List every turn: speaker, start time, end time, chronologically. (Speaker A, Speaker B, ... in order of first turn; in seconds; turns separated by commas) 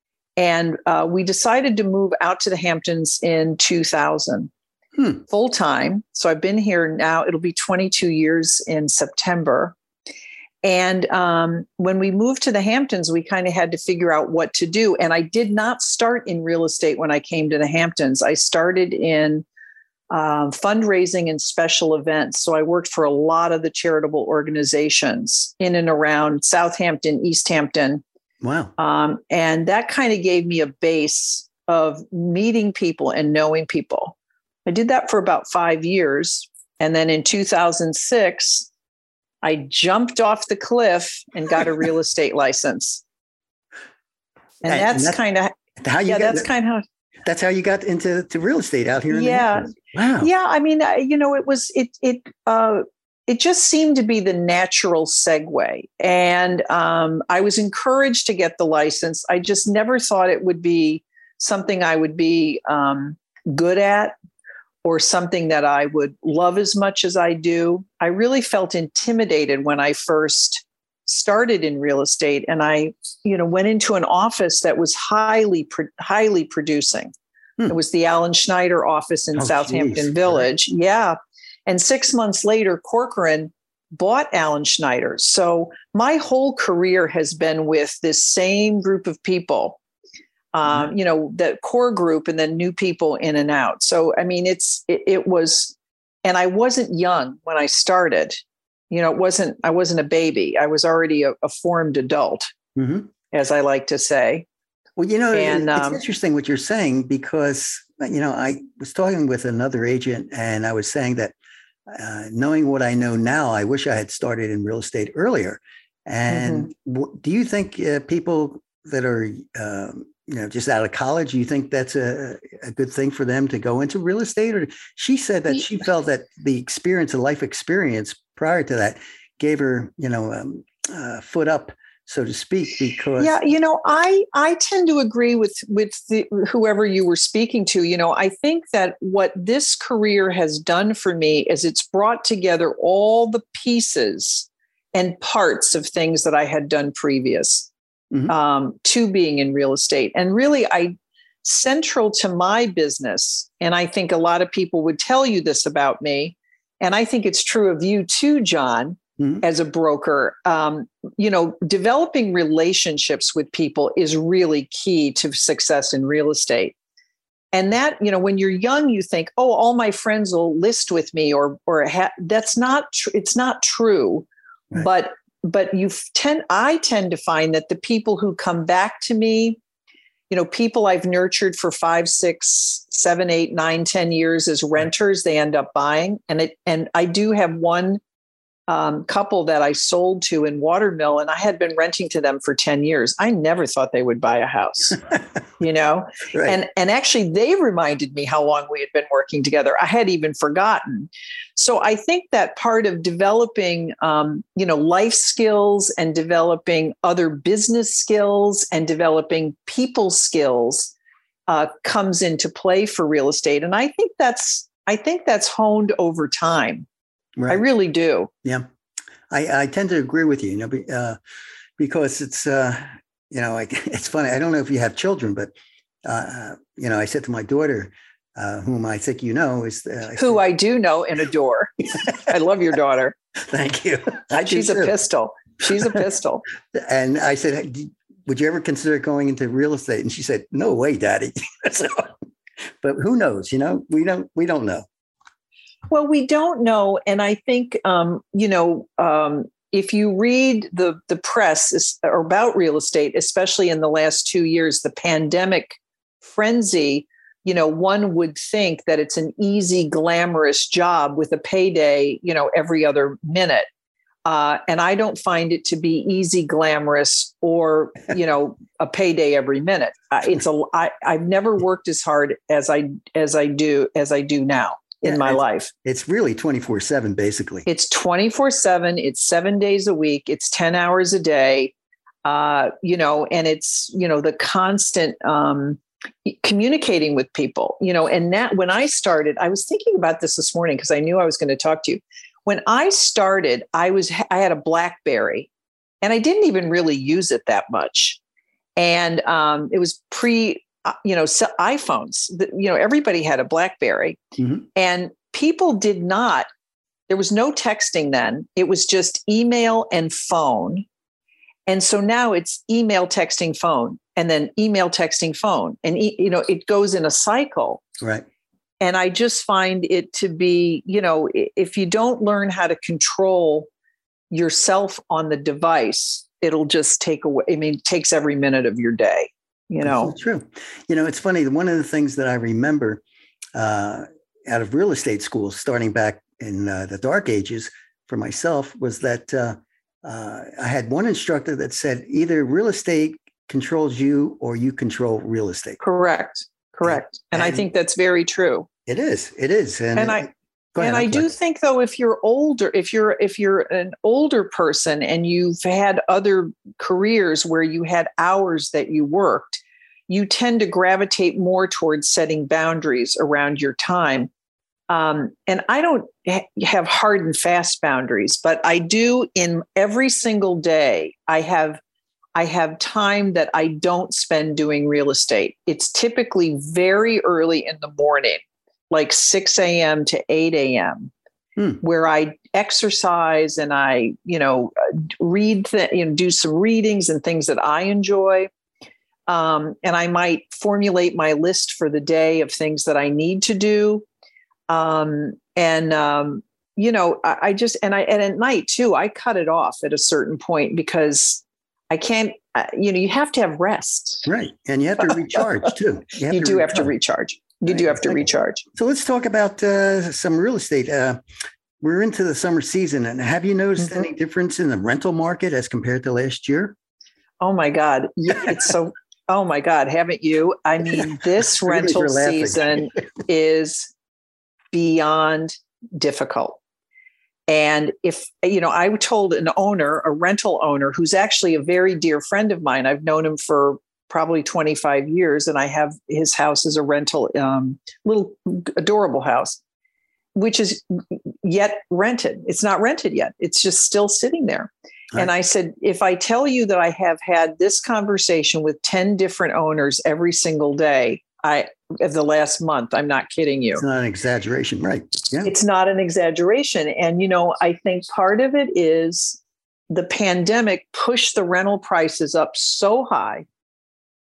Speaker A: 0.4-4.5, Speaker A: 5.2-9.7, Speaker A: 10.6-19.4, Speaker A: 20.1-28.0, Speaker B: 28.4-28.7, Speaker A: 28.8-34.1, Speaker A: 34.6-38.7, Speaker A: 39.4-43.0, Speaker A: 44.6-46.8, Speaker B: 44.6-45.2, Speaker B: 45.8-46.5, Speaker B: 47.2-50.3, Speaker A: 49.1-64.1, Speaker A: 64.8-77.1, Speaker A: 77.7-89.8, Speaker B: 79.3-80.5, Speaker A: 90.5-102.5, Speaker B: 102.8-103.1, Speaker A: 103.3-104.5, Speaker B: 105.0-111.3, Speaker A: 105.3-106.0, Speaker B: 111.9-133.4, Speaker A: 116.3-116.7, Speaker A: 133.2-147.7, Speaker A: 148.3-166.7, Speaker A: 167.5-179.6, Speaker A: 180.3-188.0, Speaker A: 188.7-195.0, Speaker A: 195.6-210.9, Speaker A: 211.5-216.8, Speaker B: 217.4-217.6, Speaker A: 217.5-218.3, Speaker B: 219.3-221.2, Speaker B: 221.8-225.5, Speaker B: 226.0-230.4, Speaker A: 230.2-233.2, Speaker B: 233.5-234.9, Speaker A: 234.4-236.4, Speaker B: 236.7-242.1, Speaker B: 242.8-244.8, Speaker A: 245.9-263.7, Speaker A: 264.2-275.7, Speaker B: 275.0-277.7, Speaker A: 277.6-281.7, Speaker A: 282.2-295.5, Speaker A: 296.0-298.2, Speaker A: 298.8-304.2, Speaker A: 304.7-306.5, Speaker A: 307.1-310.9, Speaker A: 311.7-317.8, Speaker A: 318.8-323.7, Speaker A: 324.3-330.1, Speaker B: 329.8-333.0, Speaker B: 333.5-345.8, Speaker A: 345.8-348.7, Speaker B: 346.8-347.6, Speaker B: 348.9-351.3, Speaker A: 349.9-350.3, Speaker A: 350.8-364.3, Speaker A: 364.9-371.8, Speaker A: 372.3-381.1, Speaker A: 381.8-388.5, Speaker A: 389.3-394.0, Speaker A: 394.7-404.3, Speaker B: 404.2-406.9, Speaker A: 406.3-408.6, Speaker B: 407.7-411.2, Speaker B: 411.8-416.8, Speaker A: 417.4-423.9, Speaker B: 421.6-422.6, Speaker A: 424.7-426.6, Speaker A: 427.5-439.6, Speaker A: 440.3-453.8, Speaker B: 453.7-455.5, Speaker A: 455.4-463.4